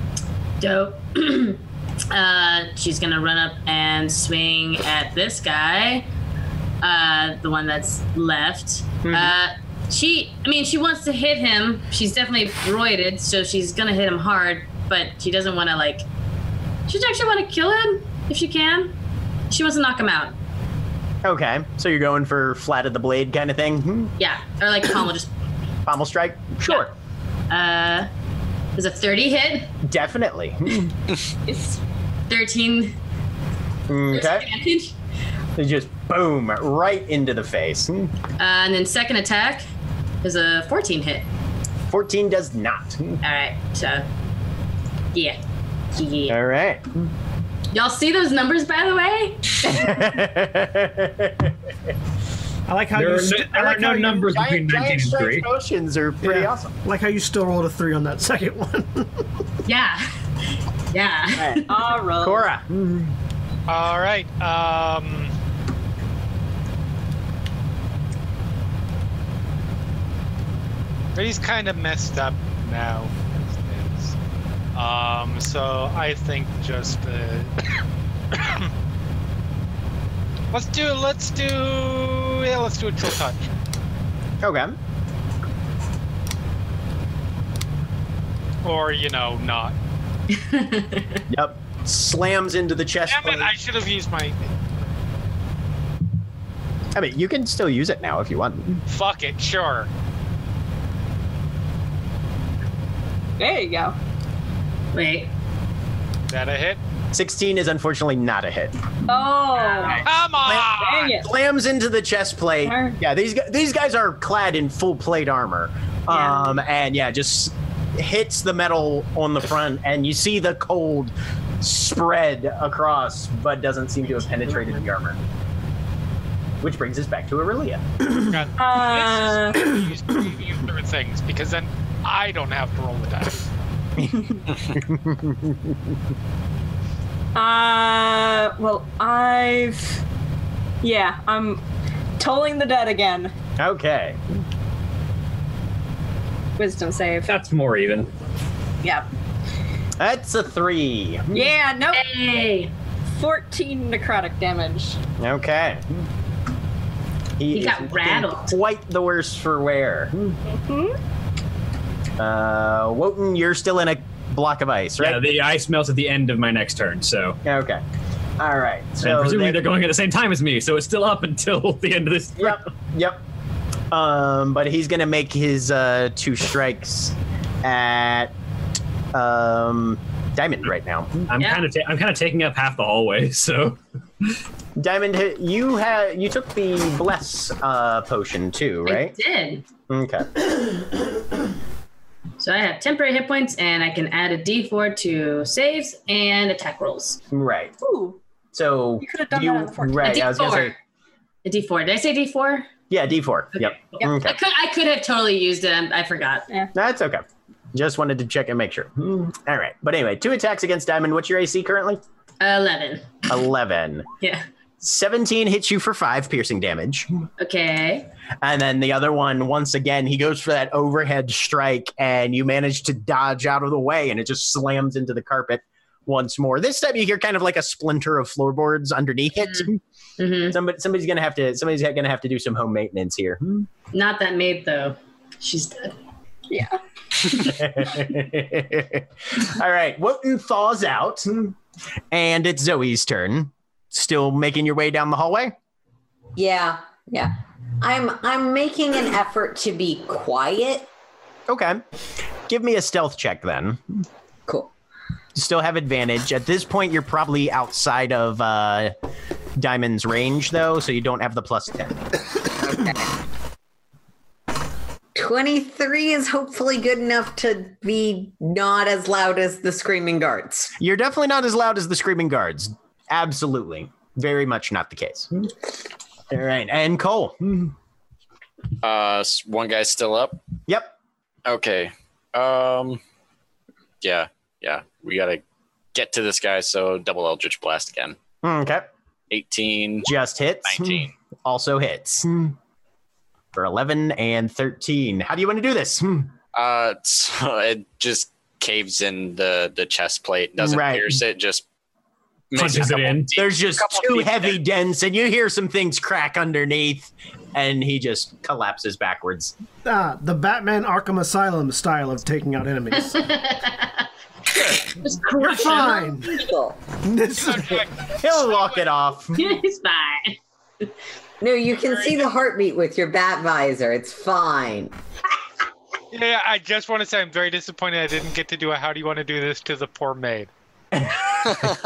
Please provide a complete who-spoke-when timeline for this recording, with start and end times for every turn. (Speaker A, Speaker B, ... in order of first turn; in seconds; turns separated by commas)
Speaker A: 0.6-6.1, Speaker A: 6.8-16.0, Speaker B: 9.0-9.3, Speaker A: 16.9-18.9, Speaker A: 19.5-20.4, Speaker B: 21.2-24.1, Speaker A: 24.2-25.3, Speaker B: 25.9-26.9, Speaker A: 27.5-28.1, Speaker A: 28.8-29.7, Speaker B: 29.8-30.9, Speaker C: 31.5-31.8, Speaker A: 32.3-33.0, Speaker B: 33.9-34.5, Speaker A: 34.1-34.9, Speaker B: 35.6-38.1, Speaker A: 38.4-39.6, Speaker A: 40.2-41.3, Speaker B: 41.9-43.2, Speaker A: 43.2-44.1, Speaker A: 45.9-46.4, Speaker B: 46.3-46.9, Speaker A: 47.7-50.1, Speaker B: 49.6-51.5, Speaker D: 52.7-54.2, Speaker E: 52.9-55.5, Speaker B: 54.1-56.7, Speaker D: 56.2-59.2, Speaker A: 59.7-60.1, Speaker A: 60.9-61.8, Speaker B: 61.4-61.6, Speaker C: 61.7-62.5, Speaker B: 62.2-63.1, Speaker F: 63.7-65.3, Speaker F: 71.2-74.2, Speaker F: 74.8-77.5, Speaker F: 78.3-78.7, Speaker F: 80.5-83.5, Speaker B: 84.4-84.8, Speaker F: 88.6-89.8, Speaker A: 90.3-91.2, Speaker B: 91.3-93.5, Speaker F: 93.1-95.0, Speaker B: 97.0-98.8, Speaker F: 98.9-99.9, Speaker C: 103.4-103.9, Speaker A: 104.9-105.3, Speaker F: 106.3-106.8, Speaker B: 107.1-108.9, Speaker C: 109.1-110.0, Speaker B: 109.8-125.2, Speaker F: 110.0-111.1, Speaker C: 110.7-111.3, Speaker C: 112.6-113.0, Speaker C: 116.1-116.5, Speaker B: 126.6-127.8, Speaker F: 128.1-133.5, Speaker C: 128.6-129.7, Speaker B: 134.0-135.8, Speaker C: 137.3-140.0, Speaker C: 140.8-141.6, Speaker C: 142.2-143.3, Speaker B: 143.6-144.2, Speaker C: 146.6-147.3, Speaker E: 147.3-148.1, Speaker B: 150.0-151.5, Speaker C: 151.3-152.0, Speaker A: 151.9-152.7, Speaker C: 153.2-155.0, Speaker B: 155.2-155.8, Speaker B: 157.4-160.4, Speaker A: 157.5-158.5, Speaker C: 160.6-160.9, Speaker B: 162.2-165.2, Speaker E: 165.0-167.4, Speaker B: 167.4-167.8, Speaker B: 168.4-169.7, Speaker E: 169.0-172.6, Speaker B: 172.4-173.2, Speaker B: 173.9-178.3, Speaker B: 179.1-181.3, Speaker E: 181.3-183.8, Speaker A: 181.4-181.7, Speaker B: 184.8-189.2, Speaker A: 188.9-189.7, Speaker B: 189.9-190.5, Speaker A: 192.4-197.2, Speaker B: 197.3-197.7, Speaker C: 197.8-198.2, Speaker B: 198.5-200.8, Speaker C: 199.0-200.1, Speaker A: 200.0-200.8, Speaker A: 201.4-202.7, Speaker B: 202.9-204.4, Speaker A: 203.6-206.5, Speaker B: 206.7-207.2, Speaker B: 207.7-212.0, Speaker A: 212.4-213.2, Speaker B: 213.3-214.1, Speaker A: 214.2-214.5, Speaker B: 214.8-217.1, Speaker A: 217.4-218.1, Speaker B: 218.4-229.8, Speaker A: 230.2-230.6, Speaker B: 230.5-233.7, Speaker A: 233.9-236.0, Speaker C: 236.5-236.8, Speaker B: 237.4-241.6, Speaker B: 242.1-245.5, Speaker G: 246.4-250.9, Speaker B: 251.5-251.8, Speaker B: 252.5-254.0, Speaker G: 254.5-254.7, Speaker B: 255.3-258.9, Speaker B: 259.6-262.0, Speaker G: 262.6-263.1, Speaker G: 265.1-270.7, Speaker B: 270.8-275.3, Speaker B: 276.3-277.7, Speaker H: 278.8-280.4, Speaker B: 280.7-280.9, Speaker H: 281.5-283.0, Speaker H: 284.0-285.4, Speaker H: 285.9-288.2, Speaker B: 288.4-288.9, Speaker H: 289.3-290.1, Speaker B: 290.1-292.6, Speaker H: 290.6-291.1, Speaker B: 293.6-296.3, Speaker H: 296.5-301.6, Speaker B: 300.6-301.2, Speaker H: 302.5-304.6, Speaker E: 302.6-303.3, Speaker B: 303.4-309.6, Speaker D: 309.9-313.2, Speaker A: 313.0-316.1, Speaker D: 315.4-316.4, Speaker G: 315.5-316.8, Speaker D: 317.0-317.9, Speaker F: 317.4-318.9, Speaker B: 318.2-319.5, Speaker A: 319.4-320.9, Speaker G: 321.4-324.9, Speaker F: 326.1-330.5, Speaker B: 330.9-331.7